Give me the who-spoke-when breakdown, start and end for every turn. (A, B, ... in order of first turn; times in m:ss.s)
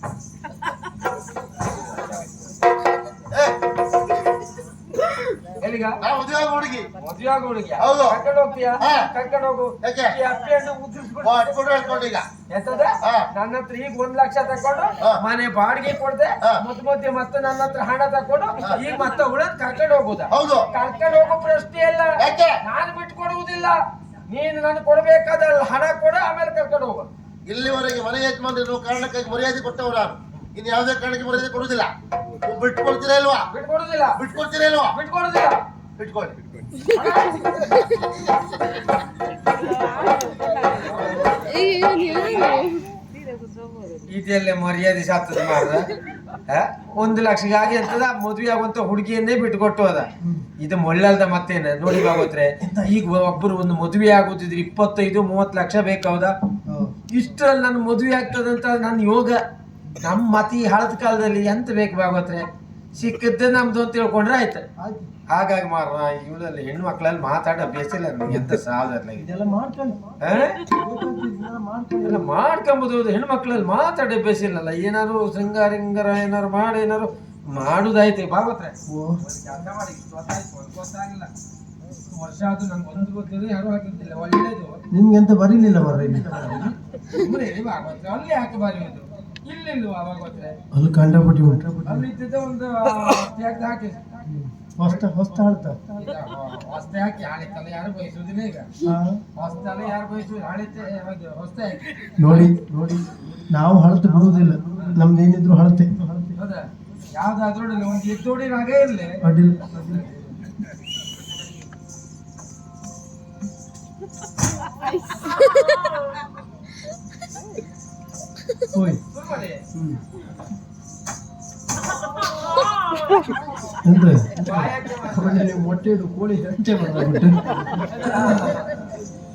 0:05.6-0:06.0 A
0:06.0-0:06.9 B
0:07.0-0:11.4 A
0:07.8-0:08.2 B
0:08.8-0:09.1 B
0:09.8-0:10.2 B
0:11.2-0:12.2 B
0:12.5-0:23.8 A
0:20.3-0:20.7 B
0:22.2-0:22.5 B
0:24.3-0:27.0 A
0:27.5-0:31.9 B
0:32.4-0:33.5 B
0:33.5-0:34.2 A
0:34.2-0:34.9 B
0:34.9-0:35.6 A
0:36.0-0:36.4 B
0:40.5-0:42.6 A
0:44.1-0:45.9 A
0:46.5-0:50.1 A
0:50.6-0:56.3 A
0:56.7-0:56.9 C
0:57.1-0:59.4 A
1:00.0-1:04.6 A
1:04.8-1:05.1 C
1:05.3-1:09.2 A
1:09.2-1:10.2 C
1:10.2-1:10.6 A
1:10.7-1:12.2 C
1:12.0-1:21.3 A
1:18.9-1:19.2 C
1:22.1-1:24.8 A
1:24.9-1:26.7 C
1:26.3-1:30.6 A
1:30.7-1:32.0 C
1:31.8-1:34.0 A
1:34.3-1:35.9 C
1:36.0-1:38.7 A
1:38.8-1:39.2 C
1:39.4-1:42.5 A
1:42.2-1:46.3 C
1:44.7-1:45.0 A
1:46.4-1:50.4 A
1:49.2-1:50.0 C
1:58.7-1:59.0 C
1:59.1-1:59.6 A
2:02.0-2:03.2 A
2:03.8-2:07.5 C
2:04.4-2:05.6 A
2:07.9-2:08.8 A